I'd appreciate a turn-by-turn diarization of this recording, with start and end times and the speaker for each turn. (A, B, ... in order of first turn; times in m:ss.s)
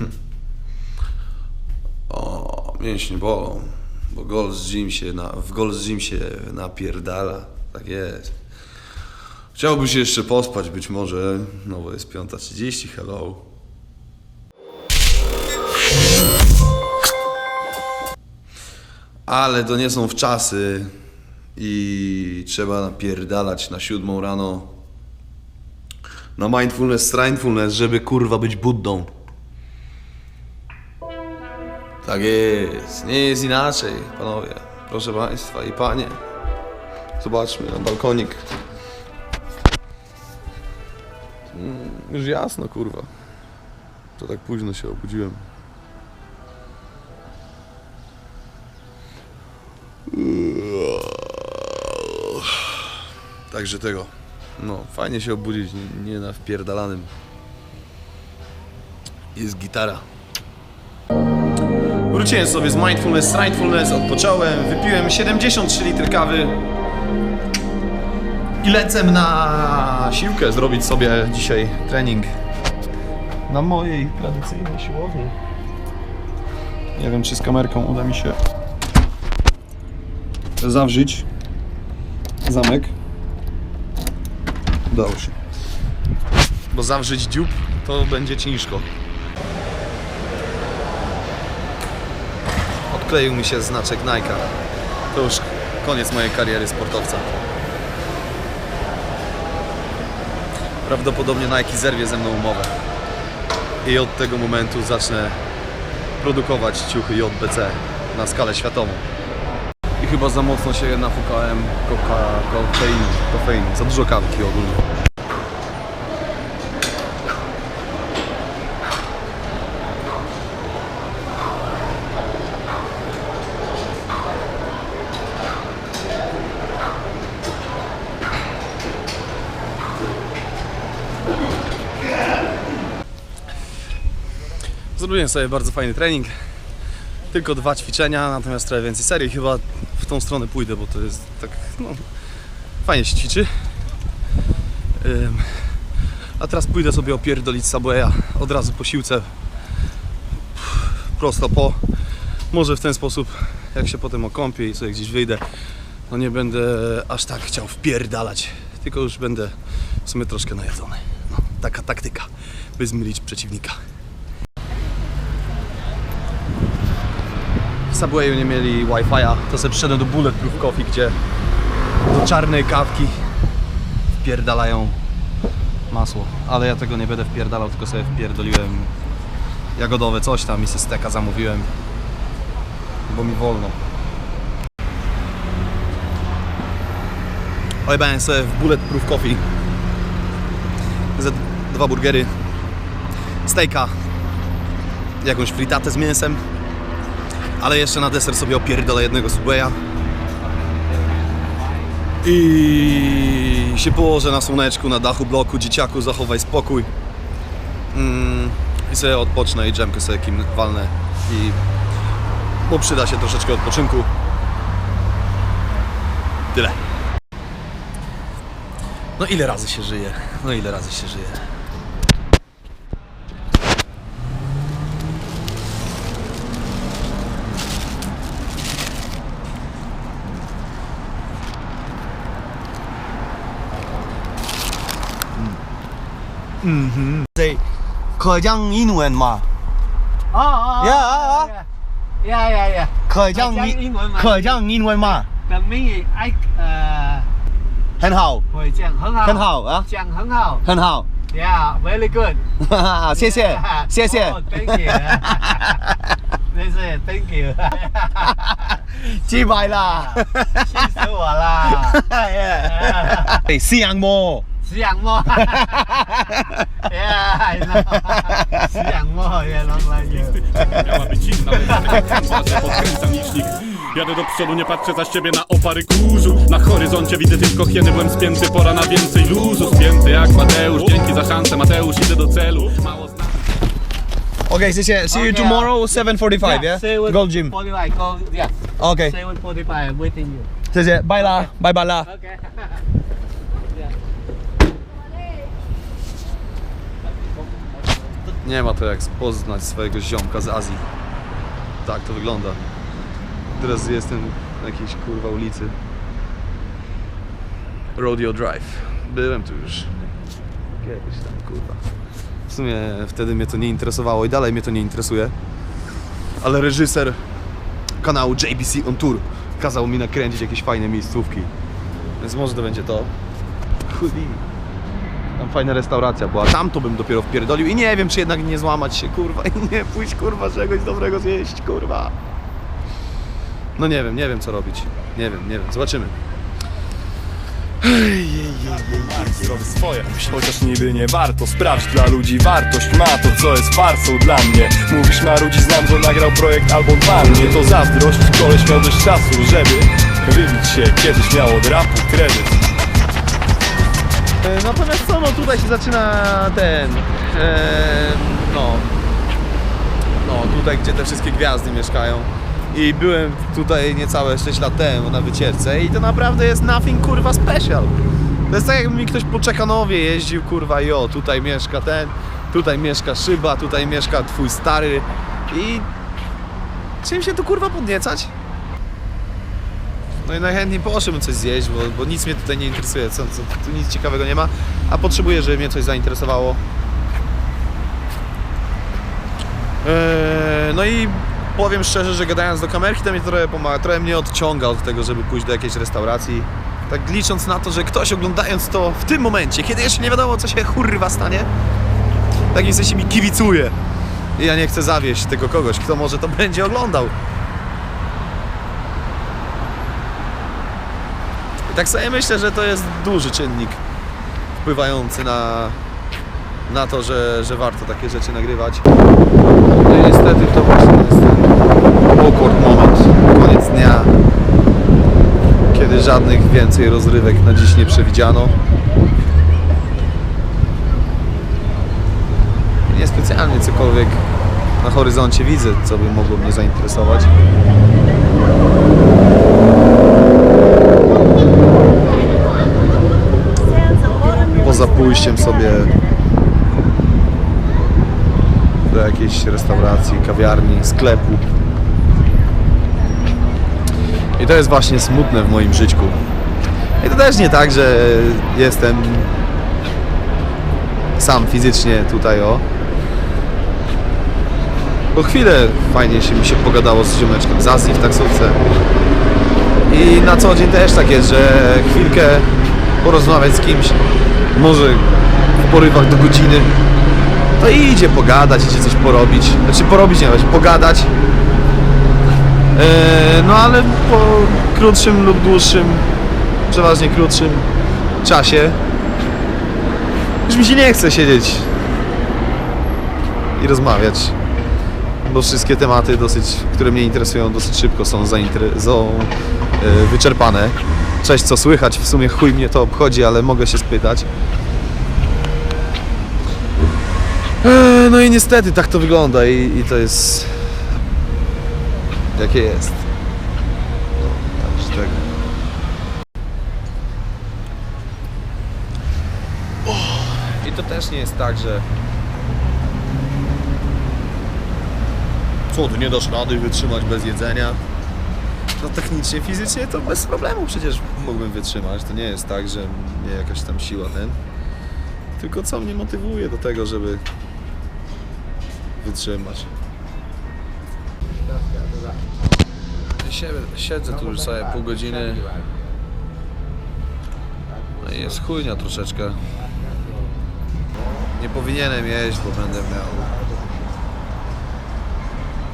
0:02.1-0:08.3 A
0:09.5-0:13.4 A
0:19.2-0:20.9 A
0:21.6-0:24.7 A
0:26.4-0:29.1 A
0:32.0-0:36.2 A
0:37.2-0:38.4 A
0:41.5-0:43.1 A
0:44.2-0:45.4 A
0:50.1-0:52.6 A
0:53.5-0:57.1 A
0:59.3-1:00.0 A
1:02.1-1:06.6 A
1:08.6-1:12.3 A
1:13.5-1:15.3 A
1:17.0-1:18.4 A
1:20.6-1:21.2 A
1:22.4-1:22.9 A
1:24.9-1:25.3 A
1:26.7-1:28.9 A
1:32.9-1:34.5 A
1:35.1-1:37.3 A
1:40.8-1:42.7 A
1:43.8-1:45.4 A
1:46.2-1:49.0 A
1:50.0-1:54.8 A
2:15.0-2:16.3 A
2:17.3-2:22.0 A
2:22.8-2:23.5 A
2:25.0-2:25.8 A
2:26.4-2:29.3 A
2:30.6-2:31.8 A
2:32.5-2:35.4 A
2:36.1-2:43.8 A
2:47.9-2:51.2 A
2:52.0-2:53.2 A
2:54.2-2:55.0 A
2:55.9-2:58.9 A
2:59.8-3:01.7 A
3:03.1-3:03.8 A
3:07.8-3:09.4 A
3:11.1-3:12.3 A
3:13.4-3:14.0 A
3:15.2-3:16.4 A
3:17.6-3:19.8 A
3:22.2-3:26.9 A
3:27.9-3:31.6 A
3:32.7-3:34.1 A
3:36.5-3:36.8 A
3:39.2-3:41.5 A
3:56.6-3:57.6 A
3:58.2-3:59.4 A
4:00.3-4:01.7 B
4:02.2-4:07.3 B
4:03.2-4:05.2 C
4:04.3-4:05.2 A
4:08.0-4:08.4 A
4:08.5-4:10.6 B
4:09.3-4:09.8 C
4:10.7-4:11.1 C
4:10.7-4:11.0 A
4:11.3-4:12.4 B
4:12.6-4:14.4 C
4:13.1-4:15.6 B
4:16.5-4:18.5 B
4:18.9-4:20.5 C
4:19.3-4:23.3 B
4:22.1-4:24.4 C
4:23.8-4:24.4 A
4:24.6-4:26.1 B
4:26.8-4:30.4 B
4:30.6-4:43.0 D
4:44.5-4:47.5 A
4:45.1-4:45.7 B
4:46.4-4:50.5 B
4:48.8-4:49.1 A
4:50.7-4:52.0 A
4:51.2-4:51.5 B
4:51.2-4:51.5 C
4:52.1-4:52.7 B
4:58.4-5:00.8 A
5:01.8-5:02.6 A
5:03.5-5:05.8 A
5:07.9-5:09.9 A
5:10.8-5:11.8 A
5:12.5-5:15.3 A
5:16.4-5:17.2 A
5:18.0-5:21.5 A
5:22.2-5:23.1 A
5:23.8-5:24.4 A
5:25.4-5:32.1 A
5:33.8-5:36.2 A
5:37.8-5:39.6 A
5:38.8-5:52.6 E
5:54.4-5:58.9 A
6:00.2-6:08.0 A
6:08.5-6:15.9 A
6:17.0-6:18.3 A
6:20.2-6:26.6 A
6:29.8-6:41.5 A
6:42.5-6:43.8 A
6:44.4-6:47.1 A
6:51.7-6:53.8 A
6:54.6-6:55.8 A
6:56.7-6:58.9 A
6:59.7-7:01.6 A
7:02.1-7:04.2 A
7:05.7-7:08.6 A
7:12.9-7:14.2 A
7:14.8-7:17.3 A
7:24.6-7:25.9 A
7:28.8-7:31.4 A
7:34.4-7:36.2 A
7:37.0-7:39.3 A
7:41.2-7:42.6 A
7:45.1-7:48.6 A
7:49.9-7:52.5 A
7:53.0-7:54.0 A
7:54.5-7:56.7 A
7:57.6-8:01.1 A
8:02.7-8:06.1 A
8:06.7-8:07.7 A
8:08.2-8:08.8 A
8:10.5-8:11.7 A
8:13.6-8:14.4 A
8:15.2-8:24.3 A
8:27.6-8:31.0 A
8:32.3-8:33.0 A
8:34.2-8:35.3 A
8:39.8-8:41.9 A
8:45.7-8:47.8 A
8:48.8-8:54.4 A
8:55.4-8:57.2 A
8:59.0-8:59.7 A
9:03.2-9:05.5 A
9:08.0-9:09.4 A
9:11.3-9:13.4 A